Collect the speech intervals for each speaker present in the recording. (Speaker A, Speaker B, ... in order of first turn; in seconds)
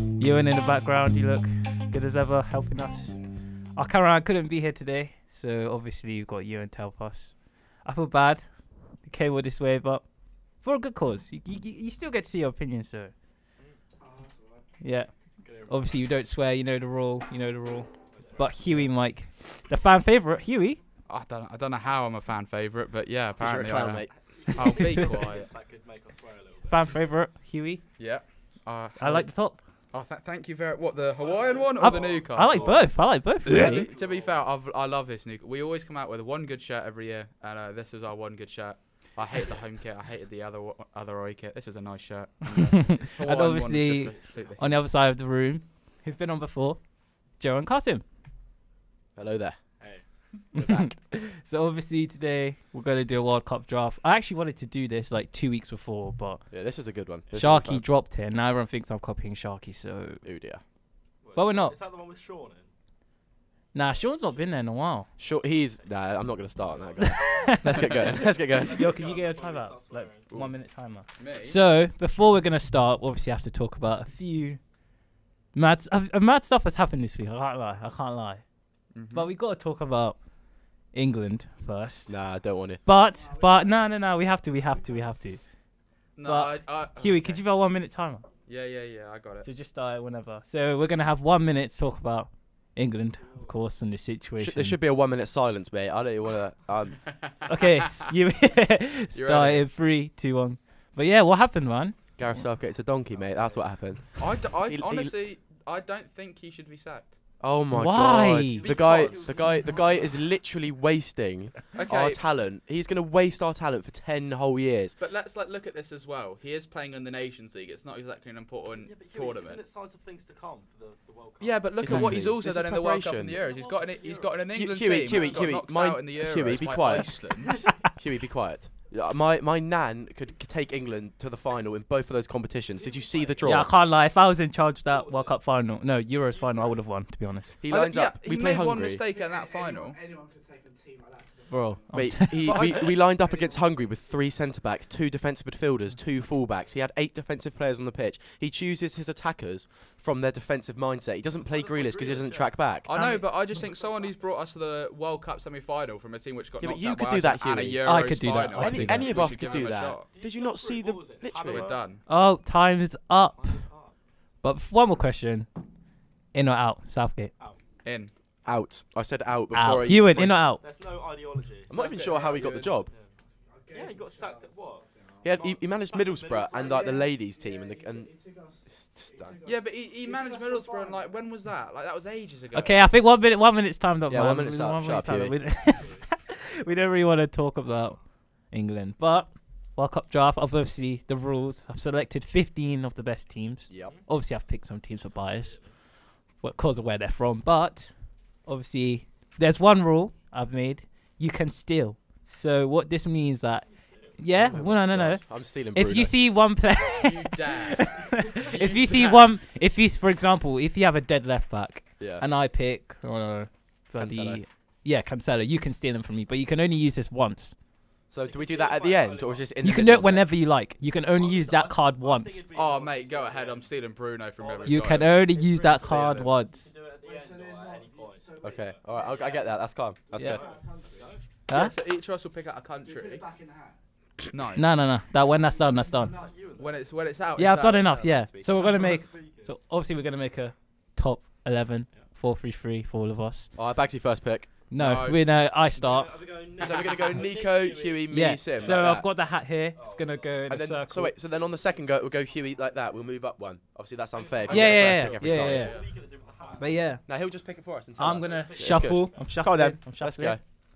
Speaker A: 0.2-3.2, 3.7-8.4, 9.0-10.0, 10.6-13.1, 14.8-15.1, 15.7-20.8, 24.7-25.0, 26.7-27.8, 29.0-29.6, 31.8-33.9, 42.5-46.8, 47.4-48.0, 50.5-56.4, 57.3-60.2, 61.4-61.7, 63.7-65.1, 67.0-68.1, 68.6-74.6, 75.5-78.4, 79.1-80.2, 80.9-82.2, 82.8-85.4, 86.2-88.2, 89.4-94.8, 97.5-102.0, 107.7-108.7, 133.4-137.6, 141.5-142.5, 152.9-153.4, 157.8-159.1, 162.1-163.6, 164.4-165.5, 166.3-167.3, 169.5-170.6, 182.5-188.0, 188.5-195.6, 196.4-197.9, 198.4-217.5, 219.6-222.4, 224.7-226.7, 231.5-231.7, 234.5-236.2, 237.3-243.5, 244.7-246.1, 248.1-251.1, 254.5-255.7, 256.6-257.0, 258.0-260.4
Speaker B: 14.0-14.7, 83.0-85.1, 132.8-133.7, 139.1-144.3, 173.5-175.4, 176.2-181.1, 227.0-229.3, 230.3-231.2, 232.8-233.8, 235.5-236.7
Speaker C: 15.4-15.9, 18.1-18.9, 24.1-27.0, 31.1-34.5, 44.0-44.6, 61.2-62.7, 63.8-64.4, 66.5-67.2, 67.9-70.2, 93.2-93.5, 102.9-103.7, 108.3-110.2, 118.7-122.1, 123.4-124.4, 125.0-125.5, 127.4-127.7, 134.8-135.4, 136.1-136.8, 151.3-152.6, 153.5-154.2, 158.9-161.8, 163.4-163.9, 170.6-173.1, 173.7-177.0, 185.7-186.1, 195.4-195.7, 203.7-204.2, 218.2-219.5, 221.1-223.7, 224.4-228.2, 228.9-229.6, 230.1-231.2, 235.2-236.8, 238.5-239.5, 245.8-249.0, 249.8-250.5, 251.3-252.9, 254.1-256.8, 258.1-259.3
Speaker D: 21.1-25.5, 28.0-29.3, 29.9-32.9, 33.5-44.6, 71.2-71.6, 78.9-79.3, 86.2-87.4, 88.5-89.5, 97.2-98.1, 99.1-99.7, 104.2-107.1, 108.8-109.4, 111.7-112.2, 115.0-119.6, 121.4-127.6, 137.7-140.0, 142.4-143.0, 152.8-160.1, 161.5-162.0, 167.8-168.1, 171.7-172.8, 179.4-182.9, 206.9-209.2, 222.5-225.2, 225.9-226.3, 231.5-233.2, 234.3-234.7, 236.6-237.9, 244.7-245.2, 254.4-255.9
Speaker E: 23.4-24.1, 49.1-49.6, 50.5-51.0, 56.5-57.8, 60.2-60.6, 65.2-68.8, 82.1-82.8, 94.4-97.0, 102.2-105.1, 107.4-115.0, 121.8-123.4, 124.5-127.2, 127.8-133.7, 137.6-139.0, 141.9-152.9, 156.6-161.7, 168.4-170.4, 171.7-172.9, 175.2-178.1, 178.7-179.4, 184.1-185.3, 193.7-193.9, 204.3-206.2, 212.0-212.2, 214.0-214.4, 218.1-220.3, 228.4-230.5, 237.7-238.5, 243.6-244.5, 246.6-249.1, 250.5-255.7, 257.0-260.4